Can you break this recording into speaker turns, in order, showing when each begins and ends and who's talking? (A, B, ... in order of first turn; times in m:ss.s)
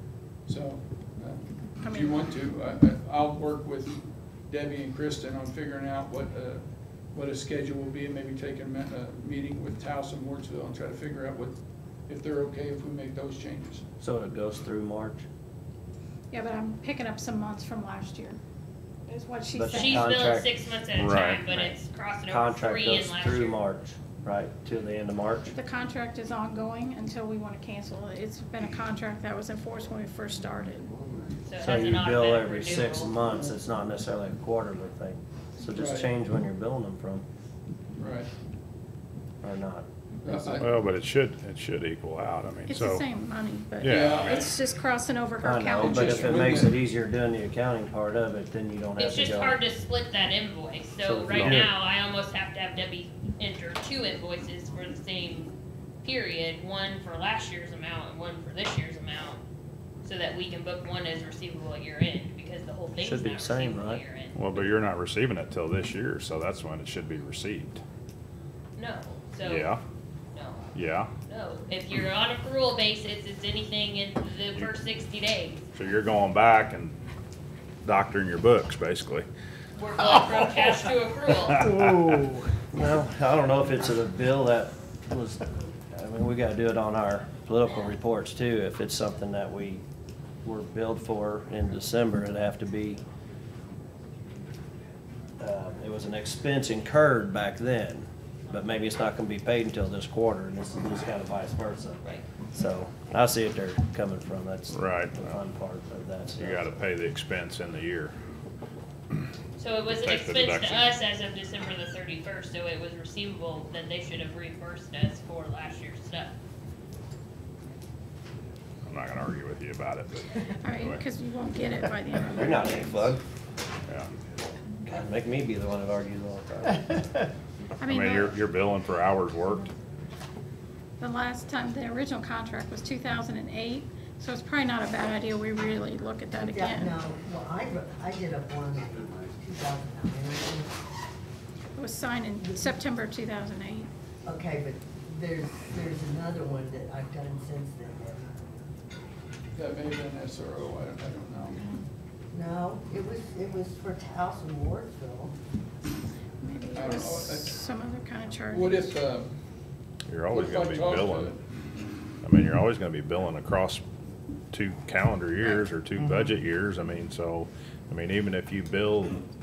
0:00.5-0:13.8 A
0:01.8-0:02.2 B
0:14.0-0:15.2 C
0:16.3-0:18.4 B
0:19.1-0:20.2 B
0:19.5-0:20.5 C
0:19.7-0:23.6 D
0:21.0-0:21.5 E
0:22.3-0:25.6 C
0:25.5-0:30.9 B
0:31.4-0:33.2 D
0:31.6-0:37.2 C
0:35.7-0:36.1 A
0:38.0-0:38.3 A
0:39.4-0:40.6 C
0:40.2-0:40.8 A
0:40.6-0:43.0 E
0:42.7-0:46.3 B
0:43.8-0:44.5 E
0:43.9-0:44.5 A
0:45.4-0:49.6 C
0:45.8-0:46.8 A
0:49.0-0:59.4 D
0:51.0-0:51.7 C
0:51.3-0:51.7 E
1:00.0-1:04.5 D
1:03.0-1:04.0 C
1:04.4-1:07.8 E
1:08.8-1:09.7 D
1:09.4-1:09.8 E
1:10.3-1:10.7 D
1:10.8-1:11.1 E
1:11.3-1:15.6 D
1:15.8-1:17.0 E
1:17.8-1:19.3 E
1:19.8-1:21.6 D
1:22.1-1:29.8 C
1:30.4-1:33.0 C
1:35.4-1:46.7 C
1:44.7-1:45.4 E
1:46.4-1:48.1 E
1:49.6-1:56.4 D
1:49.9-1:50.9 E
1:58.9-2:01.0 E
2:00.6-2:03.1 B
2:02.3-2:03.2 C
2:03.9-2:04.1 E
2:04.8-2:07.1 C
2:07.8-2:08.4 B
2:07.9-2:09.7 E
2:11.0-2:17.0 B
2:16.3-2:20.8 F
2:21.8-2:23.9 B
2:22.4-2:22.7 F
2:24.2-2:28.3 F
2:29.6-2:31.7 A
2:32.3-2:35.3 F
2:36.4-2:38.9 B
2:36.5-2:37.6 A
2:38.5-2:39.3 A
2:40.1-2:41.3 E
2:40.3-2:41.4 A
2:42.2-2:43.8 E
2:44.5-2:49.2 E